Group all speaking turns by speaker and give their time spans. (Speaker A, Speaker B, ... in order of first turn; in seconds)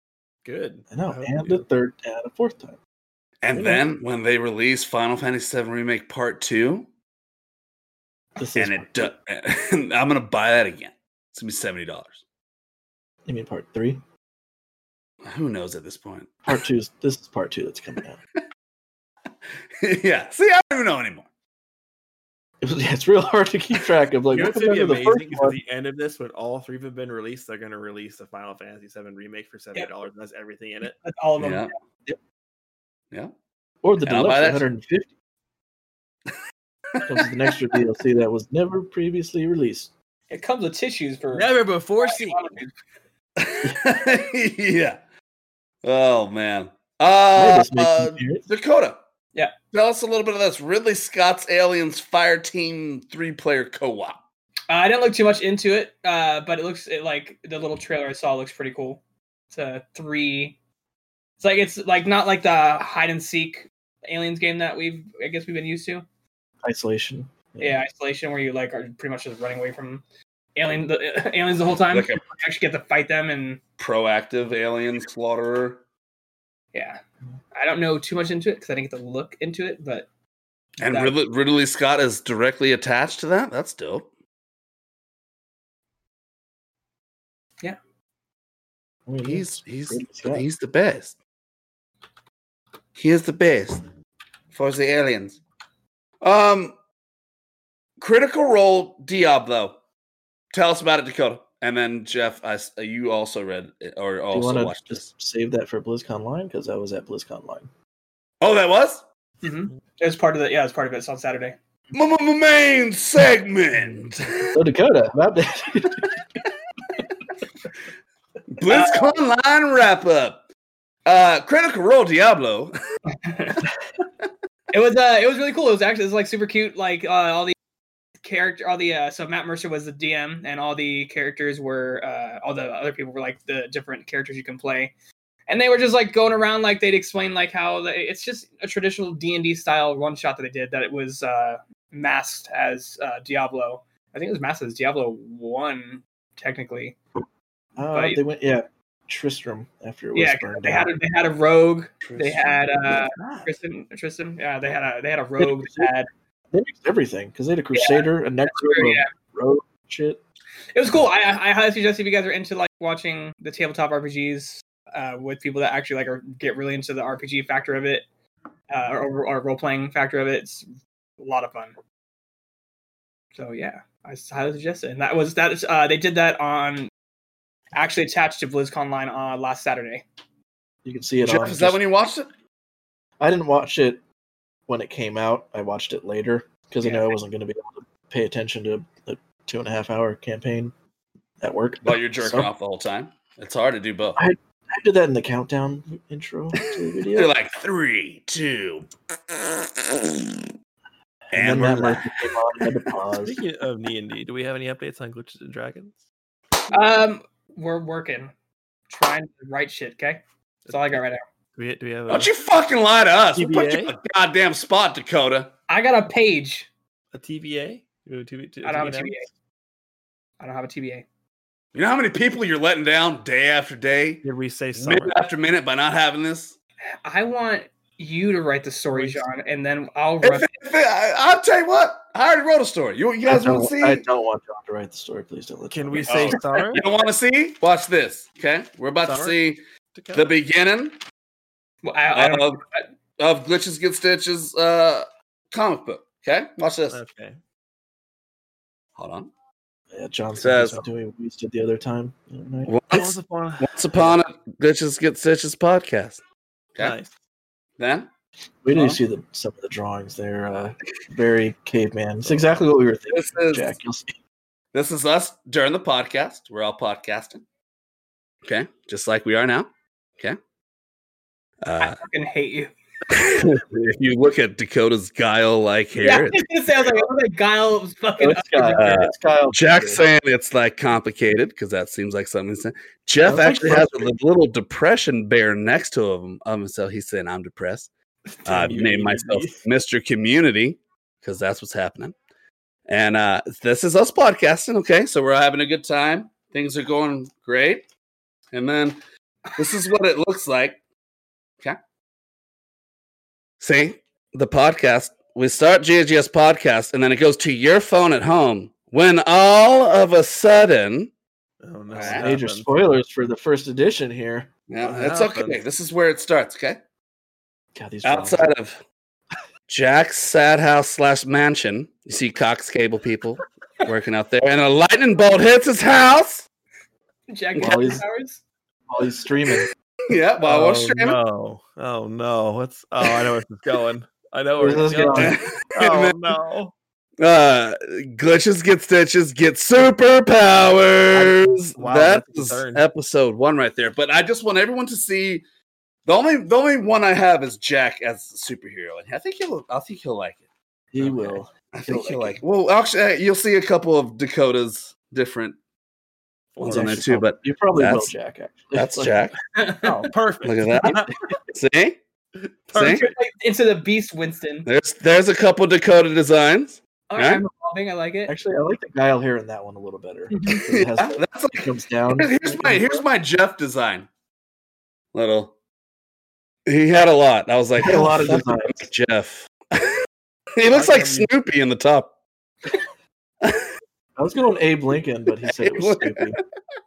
Speaker A: 0.5-1.7, 24.3-31.0, 41.3-42.6, 203.2-206.0, 210.7-211.0, 211.6-212.3, 213.3-214.0, 217.1-219.2, 224.2-225.2, 228.9-229.3, 235.7-236.8, 239.0-239.4, 239.9-240.3, 246.9-247.4, 252.9-254.2, 256.8-257.1, 288.4-289.6, 311.6-312.9, 314.8-315.6, 330.4-336.7, 341.1-342.9, 356.6-357.0, 359.8-361.1, 380.7-381.3
Speaker B: 0.9-2.8, 3.5-3.8, 8.4-9.1, 13.3-14.0, 16.5-18.2, 22.6-25.6, 33.8-35.1, 37.0-39.9, 47.4-48.5, 66.6-67.8, 89.1-90.5, 104.3-107.7, 114.5-116.2, 147.8-150.9, 155.4-155.9, 156.5-160.2, 180.8-181.8, 183.2-184.0, 184.7-190.7, 191.4-192.5, 194.2-197.3, 201.3-203.4, 233.3-236.4, 249.9-252.8, 258.6-264.1, 278.2-280.1, 283.2-284.1, 312.0-314.5, 317.8-318.5, 327.6-328.0, 328.9-329.7, 334.6-335.4, 350.9-352.4, 356.6-359.3, 368.3-373.1, 377.8-378.9, 384.2-386.4
Speaker C: 3.4-6.9, 8.6-12.2, 15.2-16.3, 19.8-21.3, 31.4-31.7, 34.0-34.7, 43.4-45.0, 45.8-49.0, 49.7-54.2, 71.9-72.2, 73.8-75.8, 80.8-84.1, 89.2-91.2, 93.0-93.8, 94.5-95.4, 96.2-96.8, 98.0-99.8, 100.5-105.1, 108.4-109.0, 111.9-114.6, 118.5-120.4, 121.1-122.7, 152.0-153.5, 181.2-182.3, 191.8-194.2, 197.1-200.4, 201.3-202.3, 212.1-215.5, 221.8-224.2, 224.8-226.6, 230.2-234.0, 236.1-239.6, 240.1-241.0, 242.1-242.6, 243.2-247.0, 249.0-249.3, 250.4-250.9, 252.7-256.2, 257.8-258.1, 258.7-259.0, 263.1-263.8, 264.7-267.4, 268.4-270.4, 271.6-272.0, 273.1-276.4, 278.8-287.9, 288.5-292.2, 292.9-297.9, 298.5-299.0, 299.6-300.8, 303.6-311.1, 311.9-312.3, 314.7-316.8, 318.0-318.8, 319.7-326.5, 330.1-331.2, 335.2-336.4, 337.2-345.4, 346.1-350.4, 351.1-355.6, 356.6-358.1, 358.7-359.4, 360.4-362.0, 362.7-363.1, 364.7-367.4, 370.7-374.1, 375.1-375.5, 376.7-380.0, 380.6-382.1, 383.4-383.7, 385.5-386.4
Speaker D: 31.0-31.7, 40.3-42.7, 54.7-59.0, 59.5-60.6, 61.4-66.0, 67.6-70.0, 70.6-73.6, 76.7-77.0, 77.5-80.1, 80.8-81.2, 109.4-111.6, 118.7-119.1, 123.1-123.7, 124.7-127.5, 128.2-134.9, 135.5-147.0, 147.9-148.2, 150.2-156.1, 157.7-159.1, 160.8-168.1, 168.7-171.8, 173.3-176.9, 177.7-180.1, 186.8-187.2, 206.7-208.3, 208.9-211.2, 215.7-216.7, 218.6-219.3, 220.4-221.1, 227.0-230.5, 241.8-242.8, 271.8-272.7, 276.0-279.0, 327.3-328.4, 334.9-335.3, 359.6-360.0, 362.7-364.7, 367.1-368.4, 370.3-370.6